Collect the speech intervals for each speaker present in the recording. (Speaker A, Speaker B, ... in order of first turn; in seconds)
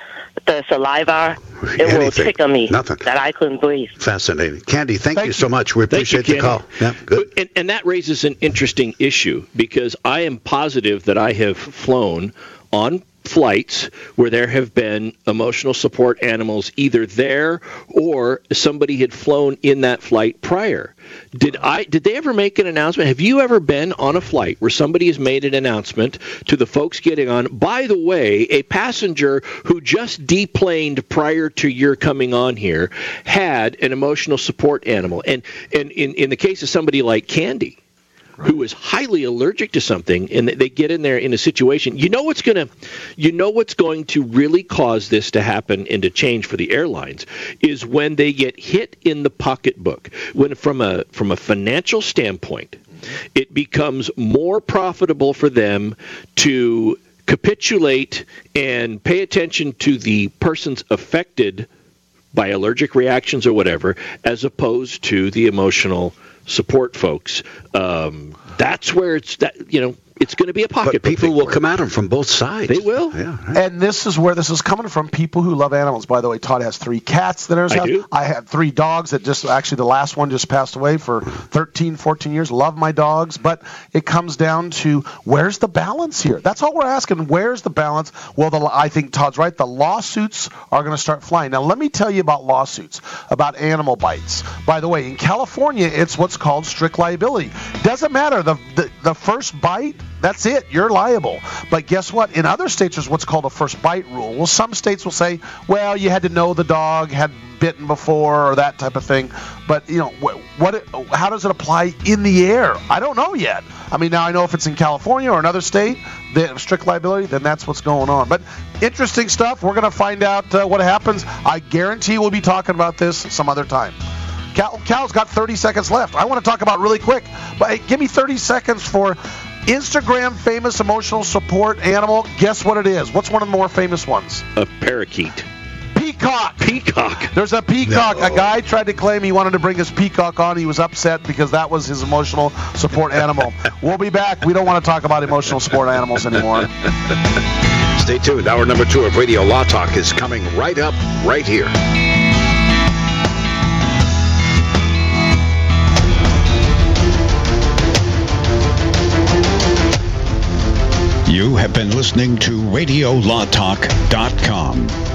Speaker A: 0.5-3.9
Speaker B: 1.6-3.0, 4.0-7.3, 70.8-73.6, 137.8-138.5, 148.0-151.7
Speaker C: 5.2-5.4, 73.5-124.0, 124.5-134.4, 135.9-136.7, 137.3-146.7
Speaker D: 5.9-37.8, 38.4-52.8, 53.4-61.7, 62.3-71.6, 72.7-73.2, 77.7-78.0, 134.6-135.5, 136.6-137.3
Speaker E: 161.3-165.0